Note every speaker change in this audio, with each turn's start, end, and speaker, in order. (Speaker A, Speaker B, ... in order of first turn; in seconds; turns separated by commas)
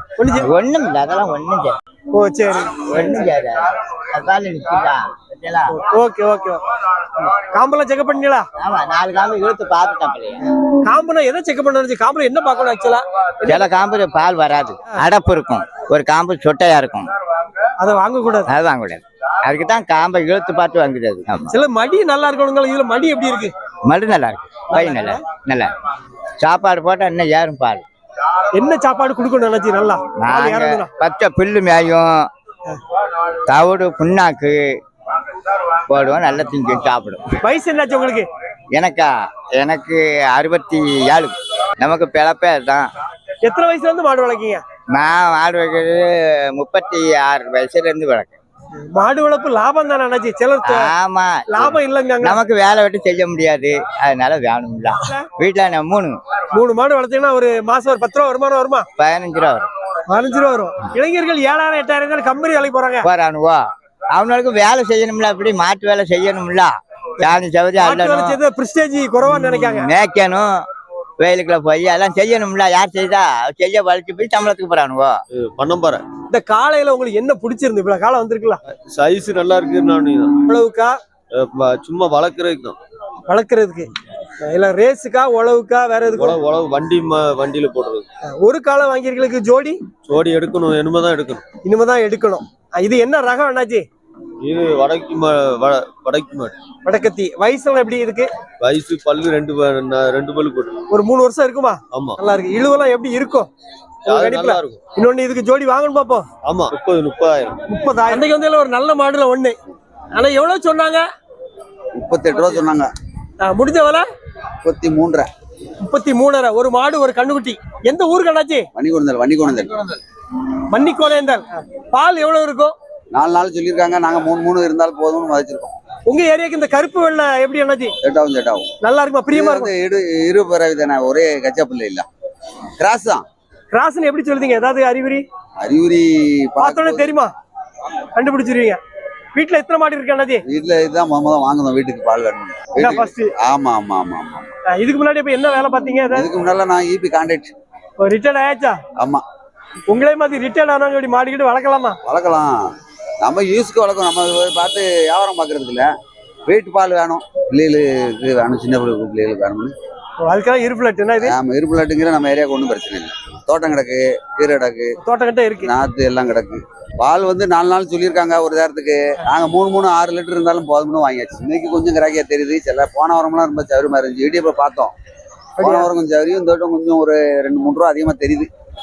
Speaker A: 0.2-0.5, Speaker B: 0.3-1.8, Speaker A: 2.1-2.9, Speaker B: 2.8-5.8, Speaker A: 5.7-6.6, Speaker A: 7.2-8.4, Speaker B: 8.6-10.4, Speaker A: 10.8-13.6, Speaker B: 13.4-17.1, Speaker A: 17.8-18.5, Speaker B: 18.5-21.5, Speaker A: 21.5-23.5, Speaker B: 23.9-25.7, Speaker A: 24.7-25.2, Speaker B: 26.4-27.8, Speaker A: 28.5-30.9, Speaker B: 30.2-32.3, Speaker B: 33.5-34.6, Speaker B: 35.9-37.3, Speaker A: 37.4-38.3, Speaker B: 38.7-42.9, Speaker A: 43.4-44.6, Speaker B: 44.9-48.4, Speaker A: 48.8-50.9, Speaker B: 50.6-56.2, Speaker A: 51.5-52.4, Speaker A: 55.0-55.3, Speaker A: 56.5-58.9, Speaker B: 59.0-59.7, Speaker A: 60.1-63.1, Speaker B: 63.0-63.6, Speaker B: 64.1-68.4, Speaker A: 67.8-69.9, Speaker B: 69.3-70.6, Speaker B: 71.2-75.2, Speaker C: 75.4-76.0, Speaker A: 76.3-78.6, Speaker C: 78.9-80.3, Speaker A: 80.5-81.0, Speaker C: 81.4-82.8, Speaker A: 83.3-83.9, Speaker A: 84.4-86.4, Speaker C: 86.1-88.0, Speaker A: 88.2-89.8, Speaker C: 90.1-91.4, Speaker A: 91.6-93.8, Speaker C: 94.5-96.5, Speaker A: 96.8-98.3, Speaker C: 98.6-100.8, Speaker A: 100.9-103.5, Speaker C: 104.1-104.8, Speaker A: 104.1-106.3, Speaker C: 106.5-107.6, Speaker A: 107.7-109.6, Speaker A: 110.1-111.0, Speaker D: 111.9-112.9, Speaker A: 113.4-114.0, Speaker D: 114.6-115.3, Speaker A: 115.8-118.7, Speaker D: 118.8-120.0, Speaker A: 120.7-122.8, Speaker D: 123.1-125.8, Speaker A: 126.1-127.9, Speaker D: 128.0-128.7, Speaker A: 128.8-129.7, Speaker D: 129.3-132.1, Speaker D: 132.8-133.2, Speaker A: 133.7-135.2, Speaker D: 135.6-137.2, Speaker A: 136.6-137.3, Speaker A: 138.2-138.8, Speaker A: 139.3-140.4, Speaker D: 140.5-144.5, Speaker A: 142.8-143.3, Speaker A: 144.7-146.3, Speaker D: 146.2-147.5, Speaker A: 148.0-148.8, Speaker D: 149.0-149.2, Speaker A: 149.9-152.0, Speaker D: 152.1-152.6, Speaker D: 153.2-155.9, Speaker D: 156.5-159.7, Speaker A: 160.2-161.3, Speaker D: 161.2-164.9, Speaker A: 165.0-165.7, Speaker D: 165.7-174.9, Speaker A: 175.6-175.9, Speaker D: 175.6-178.5